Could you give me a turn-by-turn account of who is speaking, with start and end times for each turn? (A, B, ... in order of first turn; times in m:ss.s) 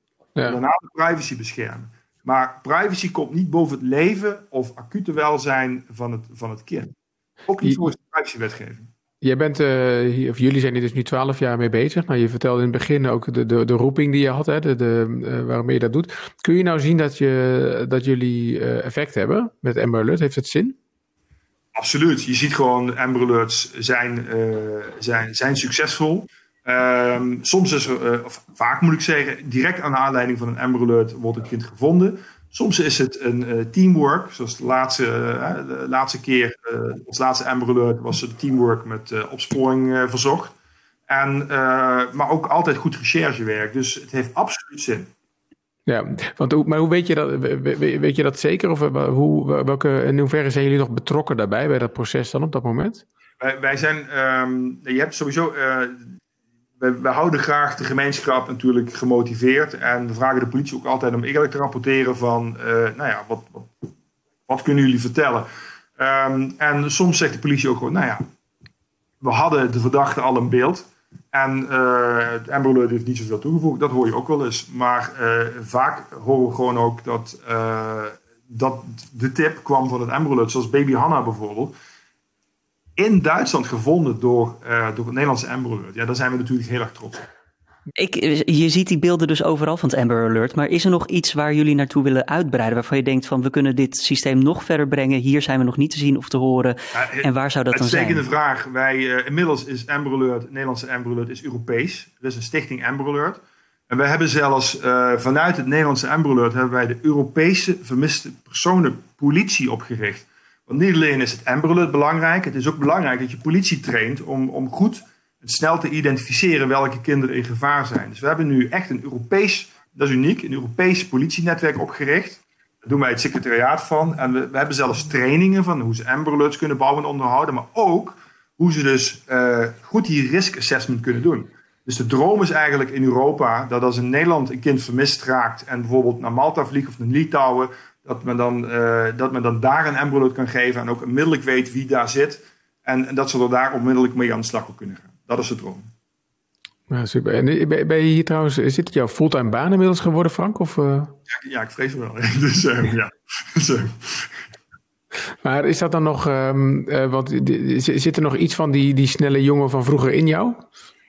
0:00.4-0:06.9 A
0:07.5-0:08.9 A
0:09.2-0:20.8 B
0:21.7-0:40.5 A
0:41.1-0:45.1 A
0:45.9-0:53.0 B
0:53.4-0:56.0 A
0:56.8-1:03.9 A
1:04.5-1:08.2 A
1:09.2-1:21.7 A
1:23.0-1:27.2 A
1:28.0-1:38.2 C
1:36.9-2:25.9 A
2:26.9-2:31.1 B
2:31.3-2:34.4 A
2:35.4-2:40.6 B